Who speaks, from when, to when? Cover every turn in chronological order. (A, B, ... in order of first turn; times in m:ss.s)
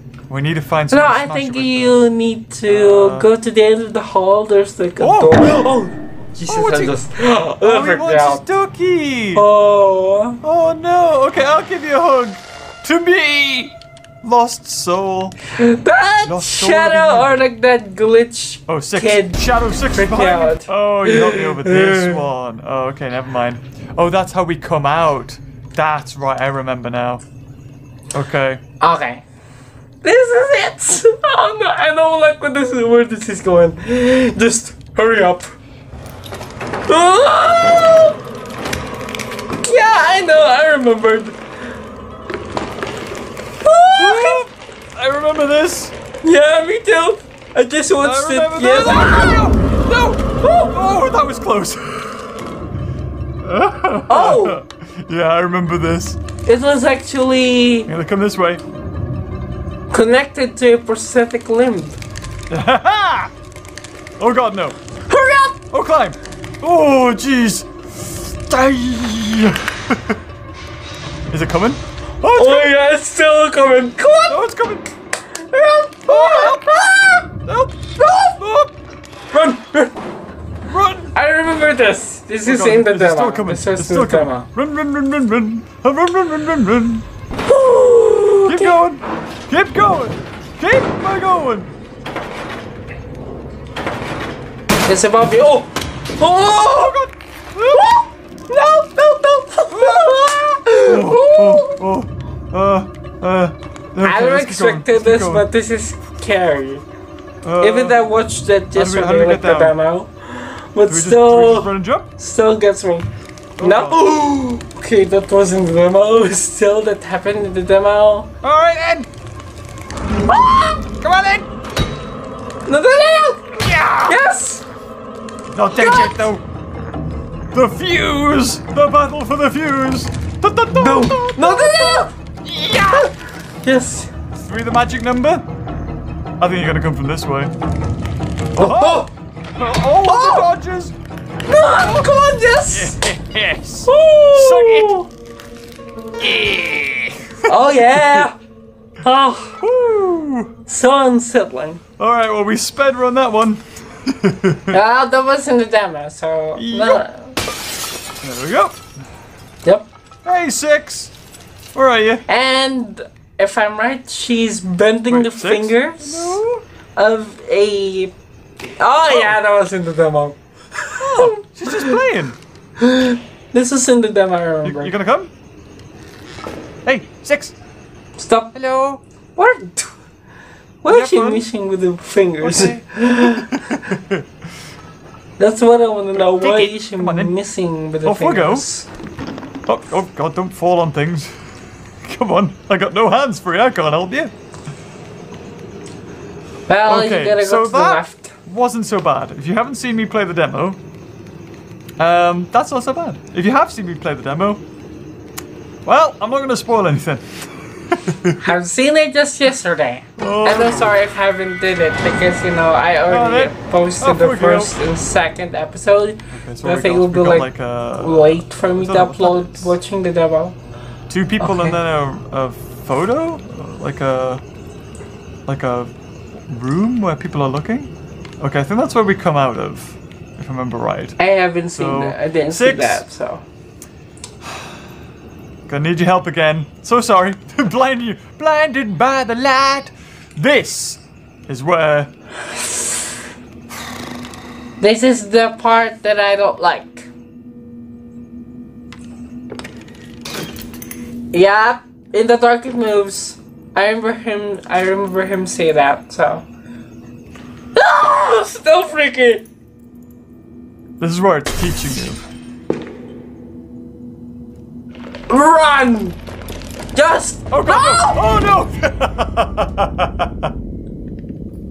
0:00.3-0:02.0 A
0:00.9-0:05.9 B
0:02.6-0:03.3 A
0:05.0-0:05.6 A
0:06.3-0:07.0 A
0:06.4-0:08.4 B
0:07.6-0:09.4 A
0:09.3-0:10.4 B
0:10.4-0:15.4 A
0:15.5-0:22.2 B
0:16.2-0:17.4 A
0:18.7-0:27.2 A
0:28.1-0:28.6 A
0:28.8-0:29.2 B
0:30.0-0:35.5 B
0:36.9-0:38.2 B
0:39.6-0:41.4 B
0:43.6-0:44.4 B
0:44.0-0:45.9 A
0:46.2-0:49.5 B
0:48.0-0:52.4 A
0:53.4-0:56.2 A
0:54.1-0:54.6 B
0:56.4-0:57.9 B
0:57.9-0:58.6 A
0:59.9-1:02.0 B
1:02.5-1:03.3 A
1:04.2-1:04.8 A
1:05.1-1:05.6 B
1:05.7-1:10.2 A
1:11.3-1:12.7 A
1:12.3-1:14.4 B
1:14.3-1:14.9 A
1:15.3-1:17.3 B
1:16.1-1:18.7 A
1:19.3-1:19.9 B
1:20.7-1:21.1 A
1:21.1-1:24.5 B
1:22.4-1:27.0 A
1:27.5-1:28.8 B
1:28.4-1:31.7 A
1:34.8-1:37.0 B
1:36.4-1:37.9 A
1:37.7-1:41.8 B
1:39.7-1:45.5 A
1:44.0-1:46.8 B
1:47.4-1:48.1 A
1:47.6-1:58.3 B
1:48.7-1:49.8 A
1:50.9-1:52.1 A
1:53.6-1:54.0 A
1:58.4-1:59.1 A
2:00.3-2:00.8 B
2:00.3-2:01.5 A
2:02.6-2:04.6 B
2:03.6-2:04.2 A
2:05.5-2:06.4 A
2:05.8-2:06.2 B
2:07.5-2:13.1 A
2:10.7-2:12.1 B
2:13.6-2:14.1 B
2:14.3-2:15.4 A
2:16.4-2:17.5 A
2:18.6-2:19.1 B
2:18.6-2:21.0 A
2:20.0-2:20.5 B
2:21.5-2:23.0 B
2:21.5-2:25.0 A
2:23.8-2:25.1 B
2:26.2-2:28.3 A
2:27.4-2:28.4 B
2:29.0-2:29.6 B
2:29.6-2:30.5 A
2:30.7-2:31.8 B
2:32.0-2:34.8 A
2:34.7-2:37.4 B
2:36.5-2:37.0 A
2:38.2-2:38.9 A
2:40.2-2:41.1 A
2:41.7-2:42.2 A
2:42.3-2:46.4 B
2:45.1-2:46.6 A
2:46.9-2:48.1 B
2:48.8-2:52.0 B
2:49.1-2:49.4 A
2:51.0-2:52.4 A
2:52.8-2:54.9 B
2:54.6-2:55.3 A
2:56.8-2:57.6 A
2:58.2-2:58.5 B
2:58.5-2:59.0 A
2:59.4-3:00.0 B
3:00.8-3:03.7 B
3:00.9-3:01.4 A
3:02.4-3:04.3 A
3:05.4-3:08.9 B
3:06.2-3:07.4 A
3:08.0-3:08.6 A
3:09.6-3:14.3 A
3:16.7-3:18.3 B
3:16.8-3:20.8 A
3:22.0-3:24.6 A
3:25.8-3:28.6 A
3:28.4-3:40.6 B
3:30.2-3:31.0 A
3:33.1-3:34.8 A
3:36.3-3:39.8 A
3:41.1-3:44.4 A
3:41.4-3:41.8 B
3:45.5-3:51.2 A
3:51.2-3:53.4 B
3:51.8-3:53.0 A
3:54.4-3:54.7 A
3:55.7-4:02.1 A
4:04.8-4:07.1 B
4:11.3-4:16.4 B
4:17.7-4:19.4 B
4:21.0-4:22.2 A
4:25.3-4:26.2 B
4:26.9-4:28.2 B
4:27.5-4:30.5 A